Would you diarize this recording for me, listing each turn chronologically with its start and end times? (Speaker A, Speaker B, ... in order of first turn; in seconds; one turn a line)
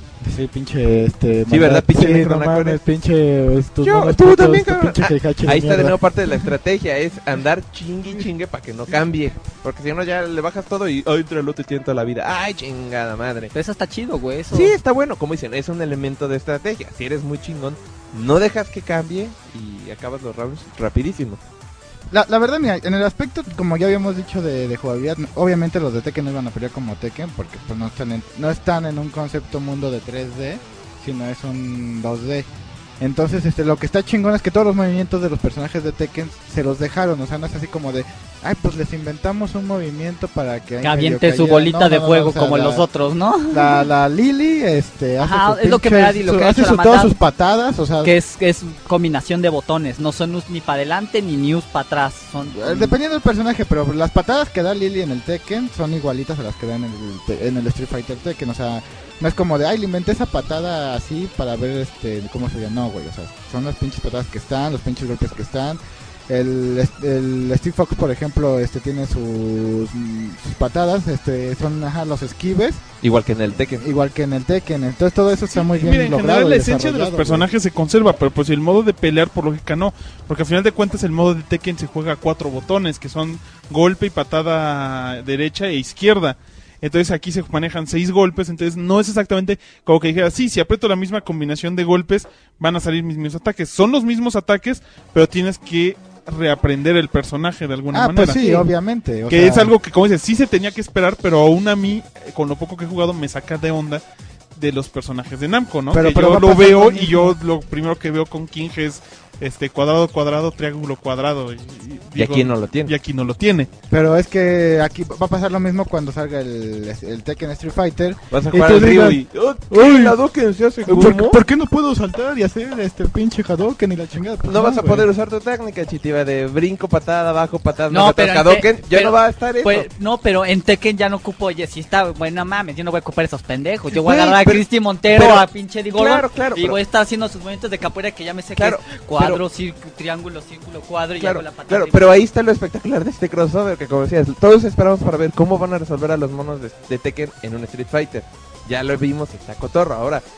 Speaker A: 0.2-6.0
Speaker B: 1.5-2.8
Speaker B: 3.8-13.5
Speaker C: 13.5-14.7
Speaker B: 14.5-21.4
Speaker A: 22.1-32.5
Speaker A: 33.0-42.9
Speaker C: 40.8-43.9
Speaker A: 43.5-48.1
Speaker C: 45.2-47.1
Speaker C: 48.0-52.9
Speaker A: 52.5-72.8
Speaker B: 73.0-73.8
Speaker A: 73.8-77.5
Speaker D: 75.5-98.4
Speaker A: 97.9-99.7
Speaker C: 98.4-98.7
Speaker D: 99.3-104.0
Speaker D: 104.5-113.7
Speaker A: 105.9-107.3
Speaker B: 112.2-112.9
Speaker A: 113.9-120.2
Speaker B: 118.3-121.4
Speaker A: 120.8-125.0
Speaker B: 124.5-129.9
Speaker C: 127.9-142.1
Speaker B: 133.9-136.8
Speaker B: 138.6-139.4
Speaker B: 141.2-150.2